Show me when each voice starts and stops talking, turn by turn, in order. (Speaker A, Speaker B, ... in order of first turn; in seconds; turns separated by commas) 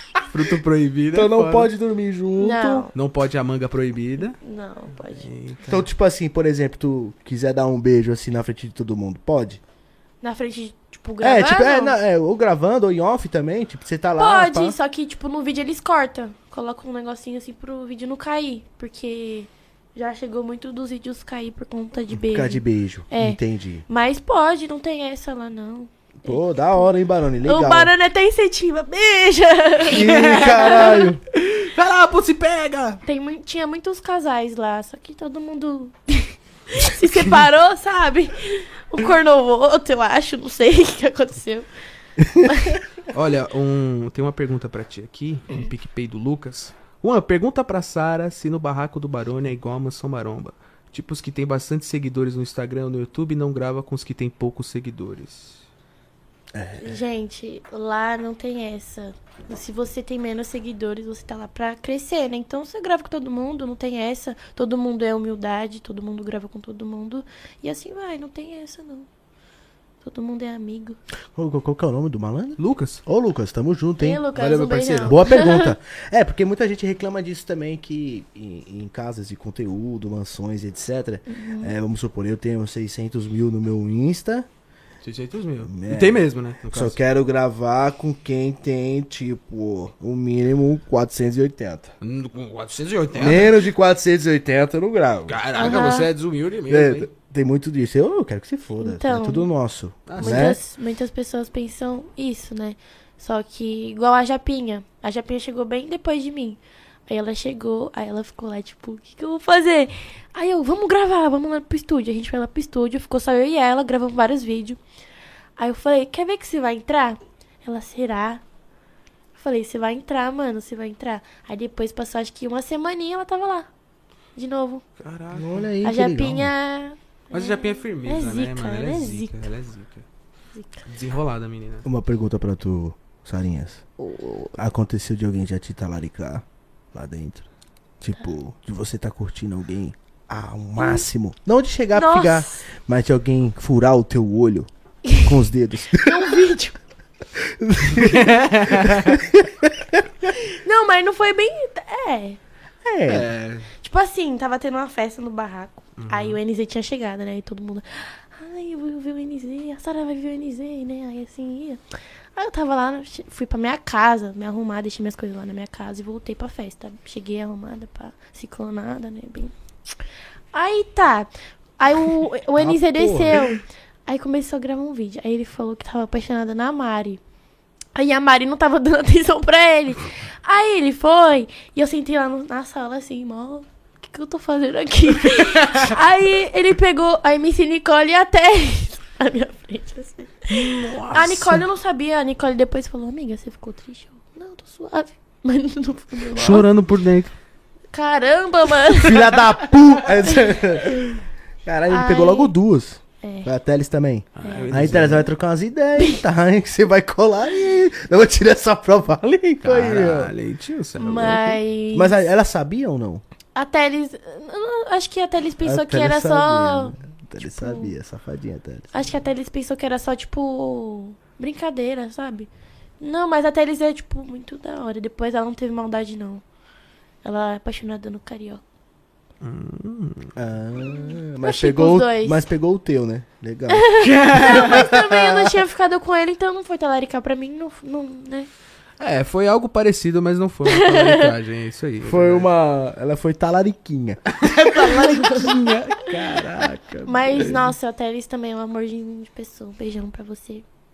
Speaker A: 0.3-1.7, Speaker B: 1.1-2.9, Speaker C: 2.4-2.9, Speaker A: 2.9-4.4, Speaker C: 4.3-5.3, Speaker A: 5.2-5.9, Speaker B: 5.7-9.6, Speaker C: 10.2-11.9, Speaker B: 11.2-14.7, Speaker C: 14.2-26.9, Speaker B: 22.3-23.8, Speaker B: 26.2-27.9, Speaker C: 27.4-31.1, Speaker A: 29.9-33.0, Speaker B: 29.9-31.2, Speaker C: 33.0-41.7, Speaker B: 42.2-42.5, Speaker C: 42.4-42.8, Speaker A: 43.1-55.6, Speaker B: 56.5-57.0, Speaker C: 56.8-69.1, Speaker C: 70.0-71.0, Speaker B: 71.3-84.5, Speaker A: 72.6-73.0, Speaker C: 74.0-75.7, Speaker A: 74.3-75.1, Speaker C: 81.3-81.7, Speaker A: 85.0-87.0, Speaker B: 85.6-91.9, Speaker A: 92.0-93.6, Speaker B: 93.2-95.4, Speaker A: 95.3-97.1, Speaker C: 95.5-96.1, Speaker B: 96.7-100.6, Speaker C: 98.8-99.5, Speaker A: 100.0-100.5, Speaker C: 100.2-114.8, Speaker C: 115.6-118.4, Speaker C: 119.3-123.7, Speaker C: 124.3-124.8, Speaker A: 125.0-125.7, Speaker B: 125.3-126.5, Speaker C: 125.8-129.5, Speaker A: 127.3-130.0, Speaker A: 130.8-131.8, Speaker B: 131.8-133.8, Speaker C: 134.0-134.5, Speaker B: 134.5-137.5, Speaker B: 138.0-146.4, Speaker C: 140.8-141.0, Speaker C: 141.9-142.6, Speaker C: 145.0-145.3, Speaker C: 145.9-146.8, Speaker B: 147.4-150.3, Speaker A: 147.9-149.2, Speaker C: 150.3-152.4, Speaker B: 152.8-153.3, Speaker A: 153.1-153.7, Speaker C: 153.8-161.8, Speaker A: 156.0-156.4, Speaker C: 162.3-169.5, Speaker C: 170.5-177.2, Speaker B: 172.6-173.3, Speaker A: 173.0-173.4, Speaker C: 177.9-196.7, Speaker A: 185.4-185.9, Speaker A: 190.5-191.6, Speaker A: 196.3-197.3, Speaker C: 197.9-199.4, Speaker B: 199.0-201.1, Speaker C: 200.2-201.0, Speaker B: 201.6-210.3, Speaker C: 201.9-202.5, Speaker C: 203.2-203.5, Speaker A: 204.3-205.3, Speaker C: 204.4-205.2, Speaker A: 209.6-211.6, Speaker C: 211.0-212.3, Speaker B: 211.9-213.2, Speaker C: 213.5-217.9, Speaker B: 215.6-218.9, Speaker C: 218.9-222.5, Speaker C: 223.0-226.4, Speaker C: 227.2-228.6, Speaker A: 229.4-230.3, Speaker B: 230.3-234.8, Speaker C: 230.9-232.4, Speaker C: 233.7-238.5, Speaker A: 234.0-235.1, Speaker A: 239.0-242.5, Speaker C: 240.7-241.3, Speaker B: 242.0-244.2, Speaker A: 244.3-247.7, Speaker C: 244.7-245.6, Speaker C: 247.0-250.6